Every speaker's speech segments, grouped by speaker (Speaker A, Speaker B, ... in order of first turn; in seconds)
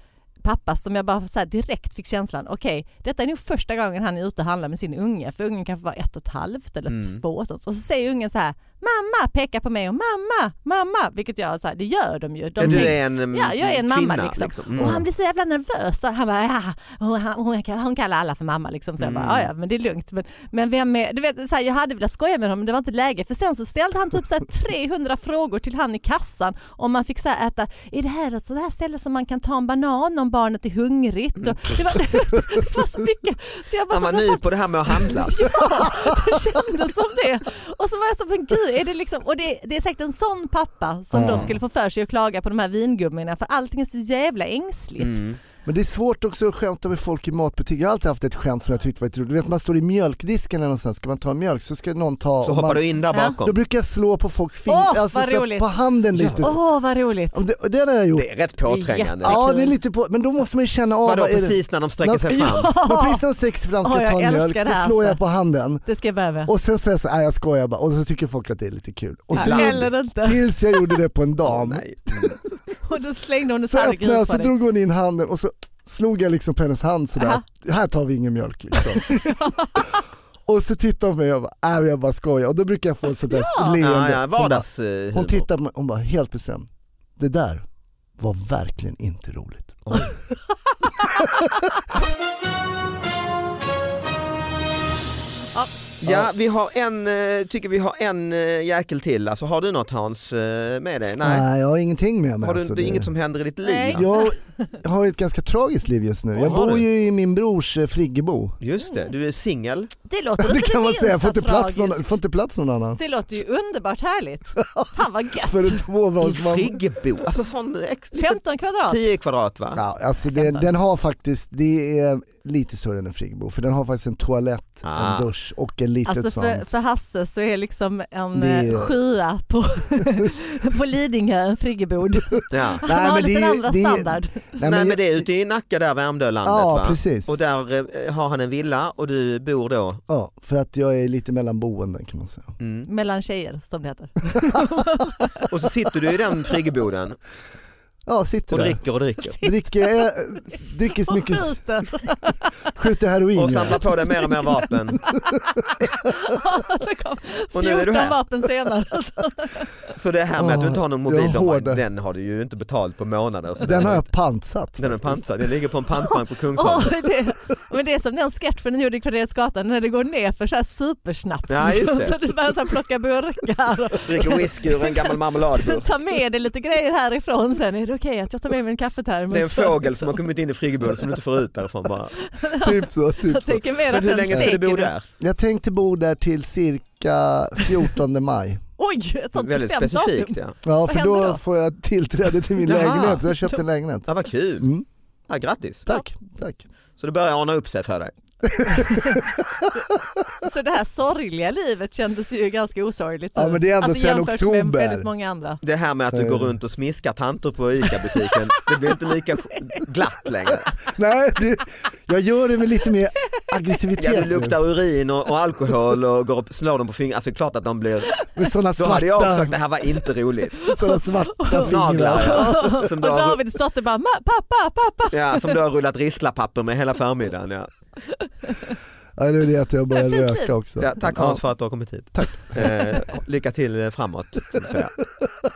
Speaker A: 0.4-45.2, 53.1-53.4, 54.7-55.7, 56.4-57.4, 58.6-59.7, 62.3-63.2, 63.8-65.2, 65.8-66.5, 69.3-71.0, 72.8-74.5, 77.2-77.4, 78.8-79.9, 83.3-83.8, 103.6-104.3, 110.0-112.1, 113.0-115.8, 118.2-119.0, 120.3-120.7, 126.0-134.6, 142.8-145.5, 149.2-152.7, 153.7-159.9, 166.5-180.2, 182.2-184.9, 188.8-191.4, 198.9-199.2, 200.4-205.6, 209.5-209.8, 220.6-225.6, 228.1-228.8, 229.9-230.5
Speaker B: 6.9-7.2, 12.6-15.0, 19.0-19.5, 33.9-35.5, 41.2-41.5, 45.0-45.4, 52.4-53.6, 56.1-56.5, 58.1-59.4, 61.0-62.7, 69.3-69.9, 71.4-72.4, 83.8-85.5, 96.0-101.5, 102.4-104.1, 106.3-106.8, 108.6-109.9, 116.2-119.8, 124.8-125.3, 132.5-132.8, 134.6-140.0, 142.6-142.9, 145.5-147.2, 148.5-149.3, 153.3-155.0, 157.5-158.2, 159.9-164.1, 164.8-167.0, 171.5-172.2, 174.0-175.9, 179.3-182.2, 183.9-185.1, 189.3-190.6, 192.6-193.3, 194.1-194.7, 195.3-195.9, 197.0-198.1, 205.6-210.8, 214.0-220.6, 221.5-223.4, 225.1-227.7, 230.8-235.0
Speaker C: 12.6-12.9, 14.8-15.0, 41.1-41.5, 45.6-52.8, 53.4-56.6, 57.3-58.3, 59.2-65.8, 66.5-72.3, 73.7-79.3, 80.5-87.7, 88.2-90.0, 91.1-91.4, 96.0-96.3, 101.2-103.1, 103.9-108.6, 110.4-113.0, 114.6-116.8, 119.7-126.6, 128.3-128.9, 132.8-135.2, 136.4-137.4, 140.1-142.5, 148.1-148.8, 149.4-151.5, 152.7-153.9, 160.3-161.8, 163.6-165.2, 182.6-184.5, 185.2-188.6, 190.6-194.1, 194.6-194.8, 195.9-196.6, 198.4-200.3, 203.3-205.1, 206.1-206.5, 210.8-214.6, 218.3-219.5, 220.7-222.9, 229.2-231.4, 232.1-232.7